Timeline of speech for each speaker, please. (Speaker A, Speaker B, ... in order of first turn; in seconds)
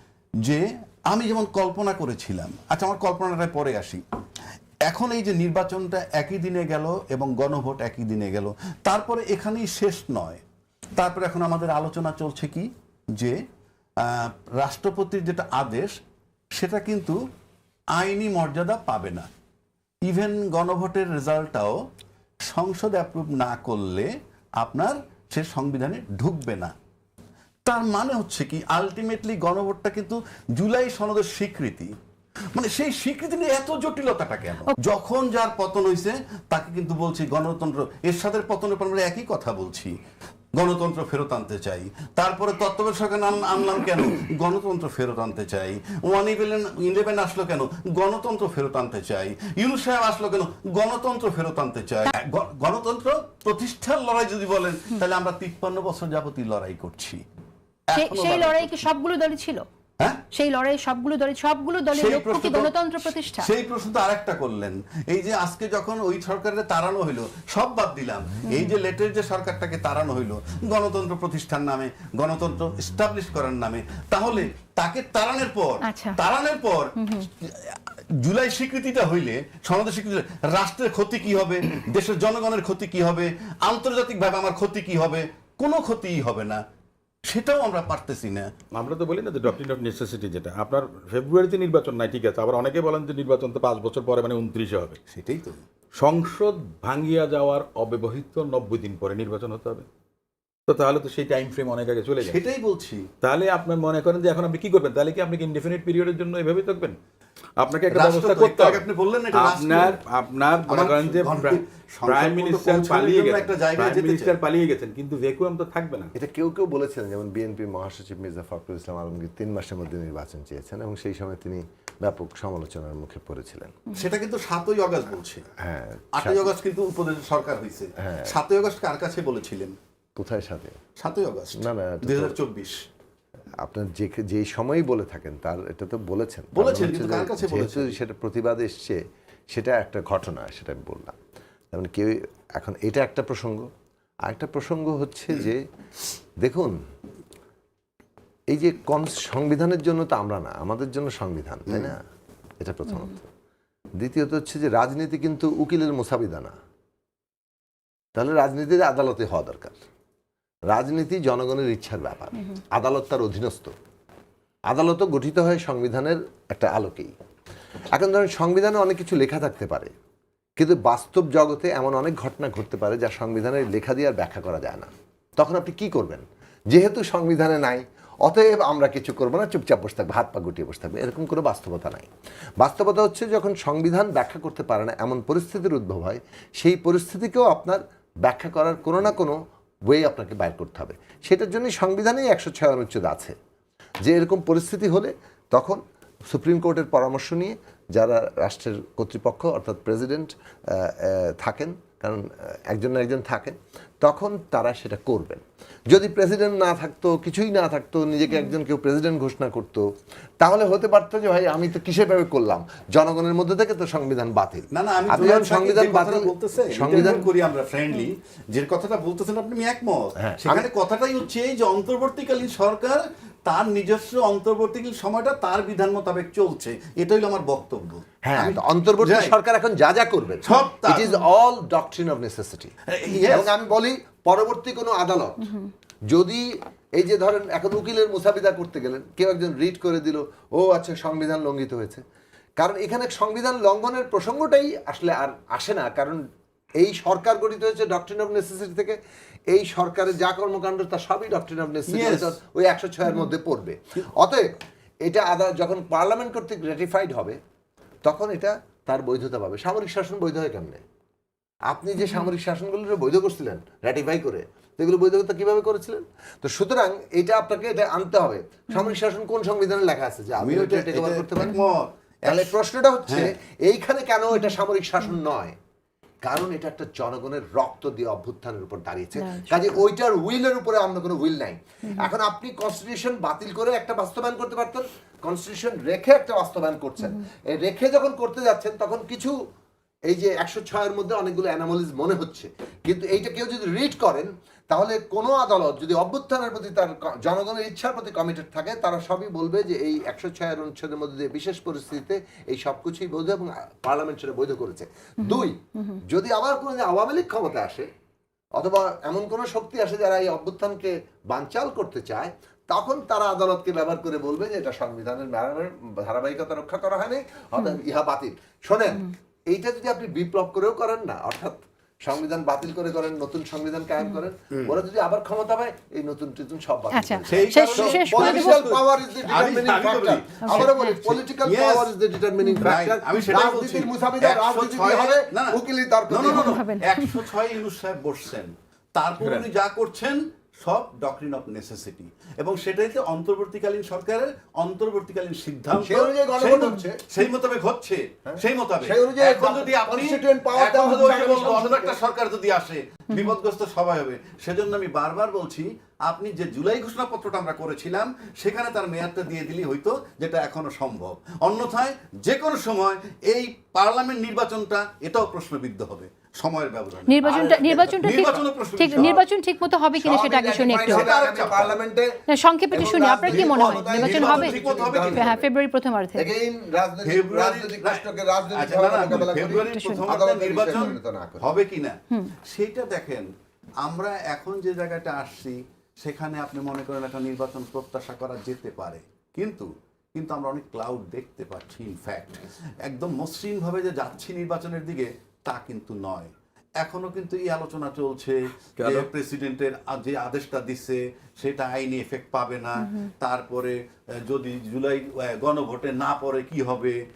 Speaker A: 0.4-4.0, 4.9-10.4, 11.0-13.4, 14.0-15.9, 16.6-17.2, 18.0-19.3, 20.1-21.8, 22.5-26.7, 27.7-31.9, 32.5-39.9, 40.5-57.2, 57.9-58.8, 61.9-86.6, 87.3-88.5, 95.1-95.6, 102.2-103.0, 107.9-110.0, 110.7-114.4, 123.9-125.5, 126.2-129.7, 131.0-132.8, 136.5-138.0, 214.7-229.4, 230.4-231.2, 232.9-233.5, 251.9-252.3, 270.4-272.6, 273.1-273.3, 324.5-324.8, 327.3-331.9, 332.6-335.6, 336.1-369.2, 370.9-371.8, 373.2-375.3, 377.0-383.3, 383.8-407.0
Speaker B: 57.9-59.6, 60.3-63.5, 68.5-68.7, 75.8-76.2, 77.0-77.3, 262.0-262.3, 268.7-269.0, 279.2-279.8, 281.9-282.1, 305.2-306.0, 326.9-328.6, 330.4-331.0, 332.4-332.7, 336.2-337.3, 367.1-371.1, 372.3-376.3, 379.0-380.0
Speaker C: 88.7-95.0, 96.0-99.9, 100.7-102.4, 103.2-107.0, 107.6-116.1, 339.2-339.5, 398.8-399.1
Speaker D: 116.2-123.8, 125.6-126.5, 128.0-128.3, 130.2-130.8, 131.6-132.4, 133.6-139.0, 139.5-141.2, 141.7-143.7, 144.2-145.6, 146.4-146.8, 148.5-152.0, 152.6-153.3, 154.0-156.5, 158.2-159.8, 160.7-163.7, 164.7-167.1, 167.9-169.9, 170.6-189.4, 189.9-193.3, 194.0-195.8, 196.3-209.9, 210.4-217.3, 220.2-220.7, 228.2-235.5, 236.1-236.4, 236.9-242.0, 242.6-246.2, 246.8-249.0, 249.5-257.4, 258.1-260.8, 261.7-271.5, 272.3-275.6, 276.2-289.3, 290.1-307.9, 308.6-336.6, 345.8-347.0, 348.3-352.0, 367.5-367.9, 370.0-375.5, 376.2-381.5